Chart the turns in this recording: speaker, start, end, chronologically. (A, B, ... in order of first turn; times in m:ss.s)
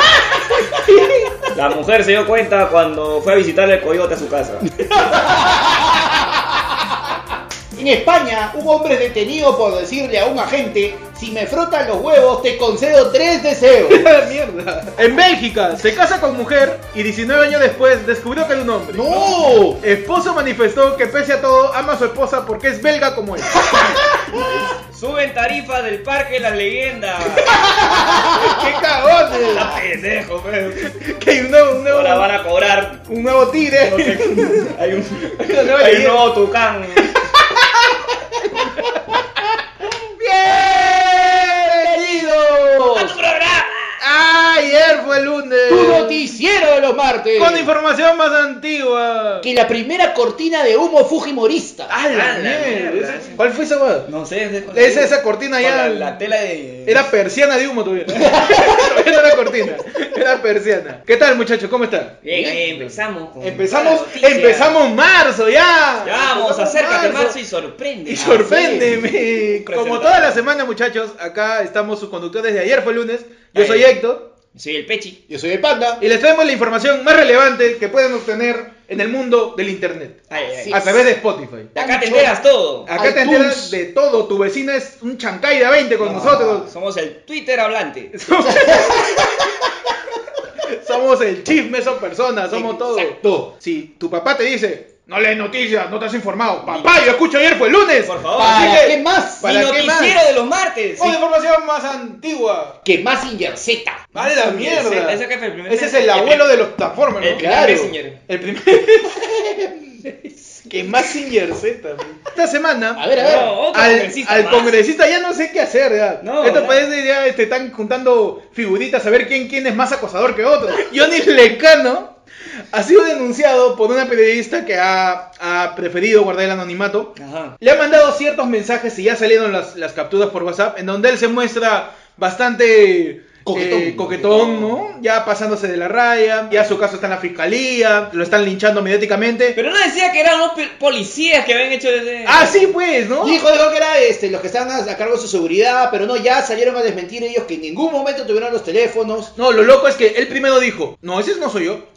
0:00.7-0:01.4 A
0:01.5-0:04.7 B
0:04.8-0:06.0 A
0:05.3-0:05.9 C
0:07.7-0:14.0 C
0:13.9-0:19.1 A
0:18.9-0:19.8 C
0:19.1-0:19.4 B
0:19.8-0:23.9 A
0:24.9-0:27.8 B
0:27.4-0:29.7 A
0:28.1-0:28.6 C
0:29.5-0:30.9 B
0:30.8-0:32.3 A
0:31.9-0:33.0 B
0:33.1-0:34.6 A
0:33.8-0:37.2 B
0:35.3-0:36.3 A
0:37.1-0:39.4 A
0:40.2-0:43.1 A
0:40.3-0:42.8 C
0:42.9-0:44.0 B
0:44.0-0:46.3 A
0:45.7-0:47.7 C
0:47.4-0:49.5 A
0:49.4-0:51.9 C
0:51.9-0:54.1 A
0:52.1-0:53.4 B
0:54.0-0:57.1 B
0:54.7-0:56.2 A
0:56.8-1:02.2 A
0:58.1-0:58.9 C
1:02.2-1:04.8 B
1:02.3-1:02.7 C
1:03.4-1:07.4 A
1:06.0-1:08.5 B
1:08.0-1:14.3 A
1:08.2-1:09.0 C
1:09.5-1:10.4 B
1:13.5-1:14.0 B
1:14.5-1:15.2 B
1:15.3-1:16.0 C
1:16.0-1:21.7 A
1:20.3-1:20.8 B
1:20.6-1:21.0 C
1:21.7-1:22.9 B
1:21.8-1:22.3 C
1:22.9-1:26.7 A
1:22.9-1:23.8 C
1:26.0-1:28.2 B
1:26.0-1:26.6 C
1:28.1-1:29.6 A
1:28.4-1:29.7 C
1:30.6-1:40.3 A
1:32.5-1:33.5 C
1:38.0-1:38.9 B
1:38.4-1:39.5 C
1:39.4-1:41.2 B
1:41.0-1:42.8 A
1:42.8-1:44.1 C
1:44.1-1:47.5 A
1:44.2-1:46.6 B
1:47.2-1:48.2 B
1:47.3-1:47.9 C
1:48.3-1:49.2 A
1:49.2-1:50.1 C
1:50.7-2:02.1 A
1:53.0-1:53.5 C
1:53.2-1:54.8 B
1:56.2-1:56.8 B
2:02.7-2:19.6 A
2:07.2-2:07.6 B
2:13.4-2:14.4 C
2:14.3-2:14.7 B
2:19.5-2:22.7 B
2:22.2-2:23.4 A
2:23.2-2:29.3 C
2:29.4-2:31.8 A